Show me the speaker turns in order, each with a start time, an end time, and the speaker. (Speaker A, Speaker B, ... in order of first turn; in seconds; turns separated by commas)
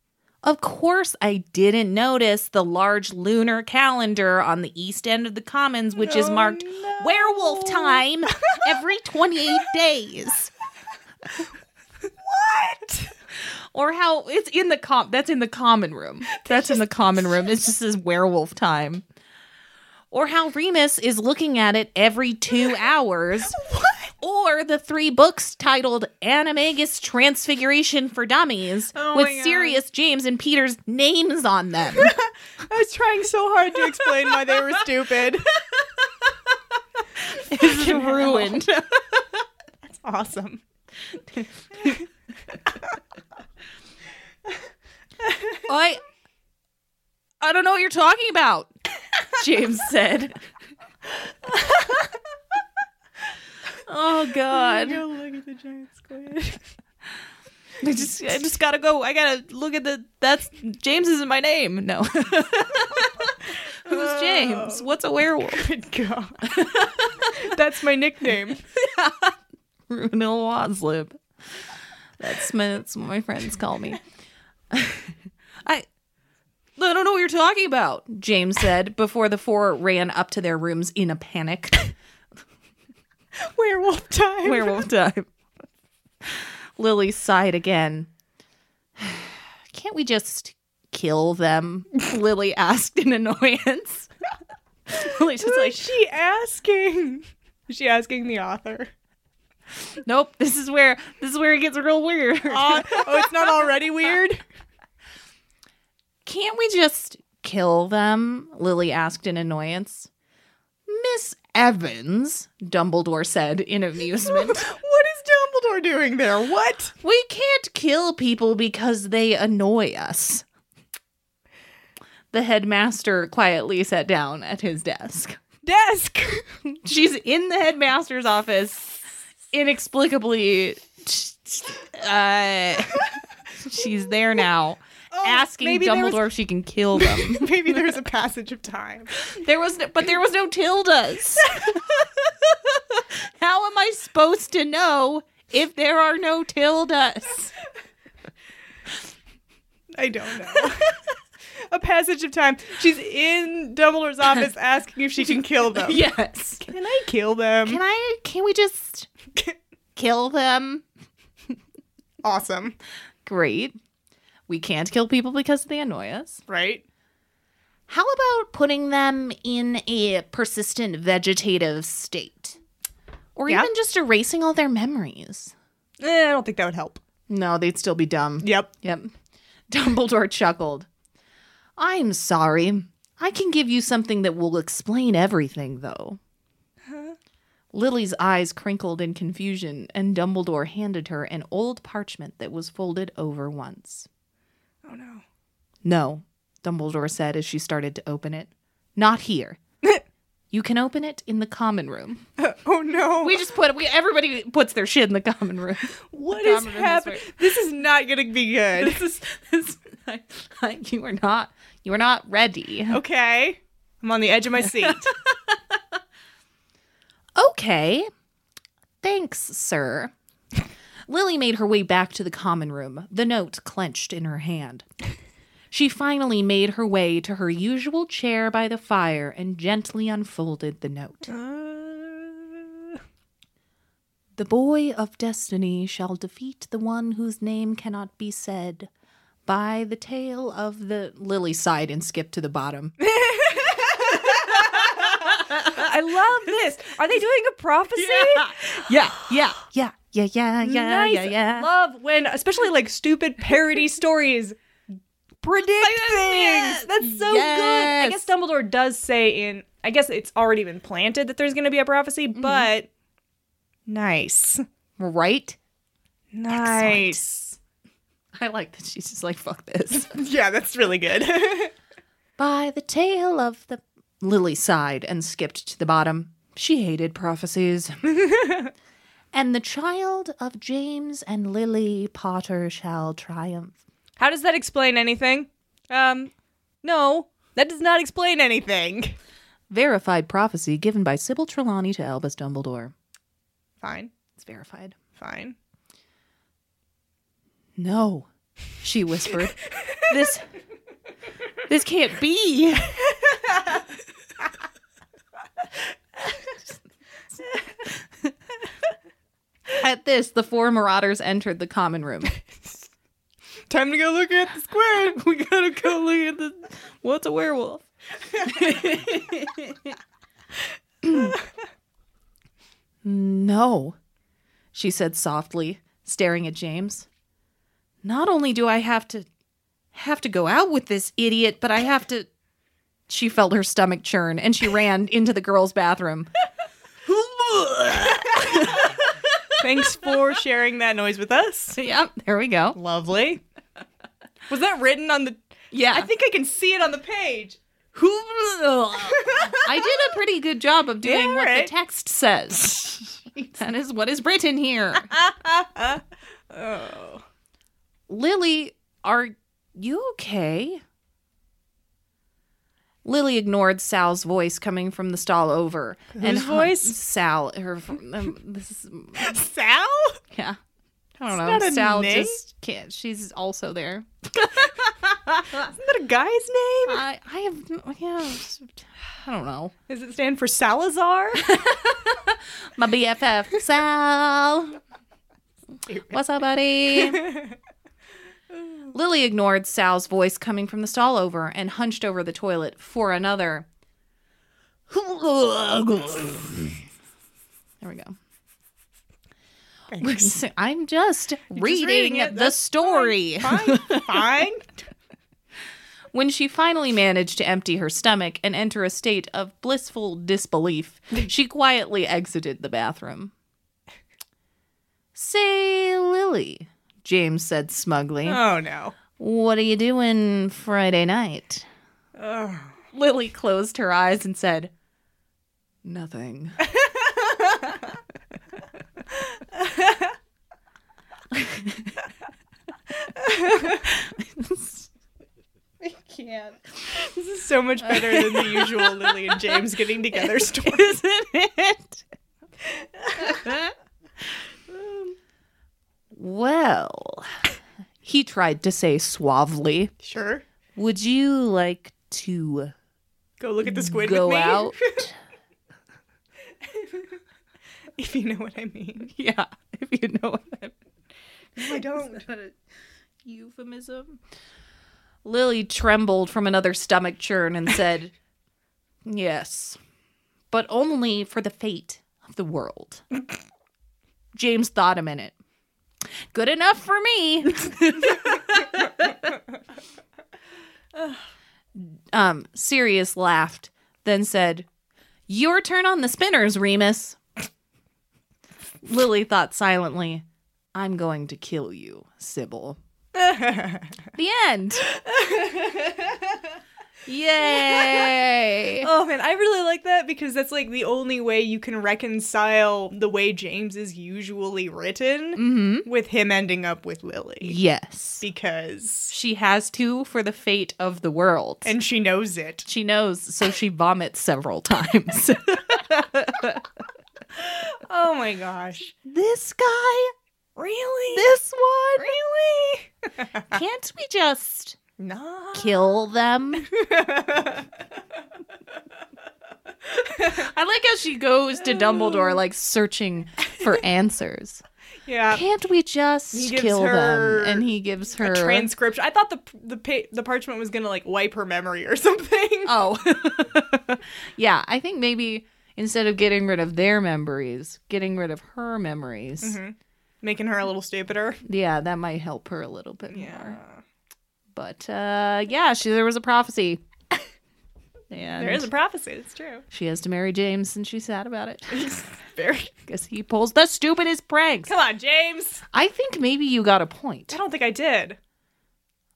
Speaker A: 0.4-10.5, Speaker B: 6.0-8.6, Speaker B: 12.0-13.1, Speaker A: 13.7-19.0, Speaker A: 20.1-23.6, Speaker B: 23.6-24.1, Speaker A: 24.2-32.1, Speaker B: 28.9-29.8, Speaker B: 32.0-35.5, Speaker A: 37.3-39.3, Speaker B: 37.5-38.6, Speaker B: 39.9-40.6, Speaker A: 41.7-42.0, Speaker B: 45.2-45.5, Speaker A: 45.7-46.0, Speaker A: 47.4-48.7, Speaker A: 49.2-50.4, Speaker B: 51.5-52.0, Speaker A: 53.9-55.0, Speaker B: 54.5-56.6, Speaker A: 57.8-65.7, Speaker B: 63.8-64.9, Speaker B: 65.5-66.6, Speaker A: 66.4-67.5, Speaker B: 67.2-68.6, Speaker A: 68.7-71.2, Speaker A: 72.2-74.0, Speaker A: 74.7-75.1, Speaker A: 76.8-81.9, Speaker B: 83.4-84.8, Speaker A: 84.4-85.3, Speaker A: 86.2-88.1, Speaker A: 89.0-94.1, Speaker A: 94.9-95.9, Speaker B: 95.0-98.9, Speaker A: 100.0-103.3, Speaker B: 102.5-104.4, Speaker A: 106.2-110.1, Speaker A: 110.9-114.7, Speaker B: 114.3-116.9, Speaker A: 117.0-120.4, Speaker A: 122.3-125.4, Speaker B: 125.6-126.5, Speaker A: 126.7-137.9, Speaker B: 135.1-136.2, Speaker B: 136.9-139.1, Speaker A: 139.2-147.5, Speaker B: 149.9-151.0, Speaker B: 151.7-156.0, Speaker A: 155.7-156.7, Speaker B: 156.6-157.8, Speaker A: 157.7-159.1, Speaker A: 159.9-160.8, Speaker B: 162.2-162.8, Speaker A: 163.2-163.8, Speaker A: 164.5-166.4, Speaker B: 166.5-166.8, Speaker A: 167.9-172.6, Speaker A: 173.3-175.5, Speaker B: 176.0-177.0, Speaker A: 177.3-179.1, Speaker B: 178.4-178.7, Speaker A: 179.7-180.9, Speaker A: 181.8-186.2, Speaker B: 186.8-187.2, Speaker A: 187.7-194.1, Speaker B: 194.8-195.2, Speaker A: 195.8-199.6, Speaker A: 200.5-202.2, Speaker B: 202.4-203.4, Speaker A: 203.2-207.5, Speaker B: 206.1-209.0, Speaker A: 208.7-213.0, Speaker B: 212.9-215.1, Speaker A: 214.6-215.6, Speaker A: 217.3-218.1, Speaker A: 219.0-220.1, Speaker A: 221.1-224.9, Speaker A: 225.7-231.3, Speaker B: 231.3-232.7, Speaker A: 234.3-238.9, Speaker A: 239.4-242.9, Speaker B: 243.0-249.3, Speaker A: 244.3-245.9, Speaker A: 247.9-251.7, Speaker B: 250.6-254.6, Speaker A: 255.4-258.3, Speaker B: 255.6-262.9, Speaker A: 262.3-262.7, Speaker B: 263.9-264.6, Speaker A: 265.0-265.6, Speaker B: 266.3-267.6, Speaker A: 266.5-267.2, Speaker A: 268.3-270.1, Speaker B: 269.9-271.7, Speaker A: 272.4-277.9, Speaker B: 278.1-278.7, Speaker A: 279.3-283.8, Speaker B: 284.2-286.3, Speaker B: 286.8-289.1, Speaker A: 289.7-292.9, Speaker B: 293.8-294.1, Speaker A: 294.4-295.0, Speaker B: 295.1-295.6, Speaker A: 297.8-298.3, Speaker A: 298.8-300.4, Speaker A: 301.7-303.0, Speaker A: 309.7-312.4, Speaker B: 313.7-315.2, Speaker A: 315.1-319.9, Speaker A: 321.0-321.3, Speaker A: 323.0-323.9, Speaker A: 324.7-327.1, Speaker A: 328.0-329.3, Speaker A: 329.9-332.3, Speaker A: 333.1-336.3, Speaker A: 337.0-340.2, Speaker B: 339.6-341.8, Speaker A: 341.8-342.8, Speaker B: 342.7-343.4, Speaker B: 344.5-345.4, Speaker A: 345.7-346.1, Speaker B: 345.9-347.6, Speaker A: 347.9-355.1, Speaker B: 349.0-349.9, Speaker B: 351.0-351.7, Speaker B: 355.1-357.2, Speaker A: 358.1-360.8, Speaker A: 363.0-369.4, Speaker B: 366.1-367.0, Speaker B: 369.2-370.2, Speaker A: 370.3-370.6, Speaker A: 371.2-374.7, Speaker B: 371.3-372.4, Speaker B: 375.5-377.0, Speaker A: 376.9-379.7, Speaker B: 379.9-381.5, Speaker A: 381.4-384.8, Speaker B: 385.9-386.1, Speaker A: 386.1-387.3, Speaker B: 387.0-387.5, Speaker A: 388.9-393.7, Speaker A: 394.9-396.8, Speaker A: 397.8-398.1, Speaker B: 399.9-400.3, Speaker A: 400.0-404.2, Speaker B: 401.5-404.7, Speaker A: 406.1-413.3, Speaker A: 415.1-418.4, Speaker B: 418.2-418.9, Speaker A: 419.1-421.6, Speaker B: 422.2-422.8, Speaker A: 422.9-424.7, Speaker A: 425.8-426.6, Speaker B: 426.7-427.8, Speaker B: 429.4-430.1, Speaker A: 431.3-432.1, Speaker B: 433.2-433.8, Speaker A: 433.6-434.9, Speaker A: 435.8-436.6, Speaker B: 436.9-441.0, Speaker A: 437.8-439.6, Speaker A: 440.1-442.0, Speaker B: 443.0-443.4, Speaker A: 443.2-443.7, Speaker A: 446.1-447.3, Speaker A: 448.0-449.9, Speaker B: 450.0-450.4, Speaker A: 450.8-452.7, Speaker B: 453.4-455.0, Speaker A: 453.6-455.1, Speaker B: 458.0-459.1, Speaker A: 459.1-460.7, Speaker B: 461.6-462.2, Speaker A: 461.7-462.6, Speaker A: 463.2-464.2, Speaker A: 465.2-468.1, Speaker A: 469.1-469.8, Speaker A: 470.5-473.0, Speaker A: 474.3-475.3, Speaker A: 476.3-479.1, Speaker A: 481.8-484.7, Speaker A: 485.3-487.2, Speaker A: 488.8-492.8, Speaker B: 493.1-494.0, Speaker A: 494.1-494.9, Speaker B: 494.9-496.2, Speaker A: 497.1-498.9, Speaker B: 497.6-498.1, Speaker B: 498.8-507.6, Speaker A: 505.4-505.9, Speaker A: 507.4-508.2, Speaker B: 508.2-509.1, Speaker A: 509.1-511.8, Speaker B: 511.6-512.7, Speaker A: 512.6-516.7, Speaker B: 517.3-518.9, Speaker A: 518.9-520.1, Speaker B: 520.5-521.3, Speaker A: 521.1-522.2, Speaker B: 522.0-523.5, Speaker A: 523.5-524.8, Speaker B: 525.0-525.9, Speaker A: 525.5-526.7, Speaker B: 526.6-527.7, Speaker B: 530.1-530.4, Speaker A: 530.2-534.6, Speaker B: 535.0-535.4, Speaker A: 535.3-538.7, Speaker B: 536.3-537.7, Speaker B: 538.2-542.8, Speaker A: 542.6-549.6, Speaker B: 549.4-551.4, Speaker A: 551.4-553.6, Speaker B: 553.1-553.8, Speaker A: 554.5-556.8, Speaker A: 558.1-558.7, Speaker B: 558.4-559.6, Speaker A: 559.7-561.9, Speaker B: 561.7-562.7, Speaker A: 562.9-564.7, Speaker B: 564.7-565.6, Speaker A: 565.7-567.4, Speaker B: 567.3-568.2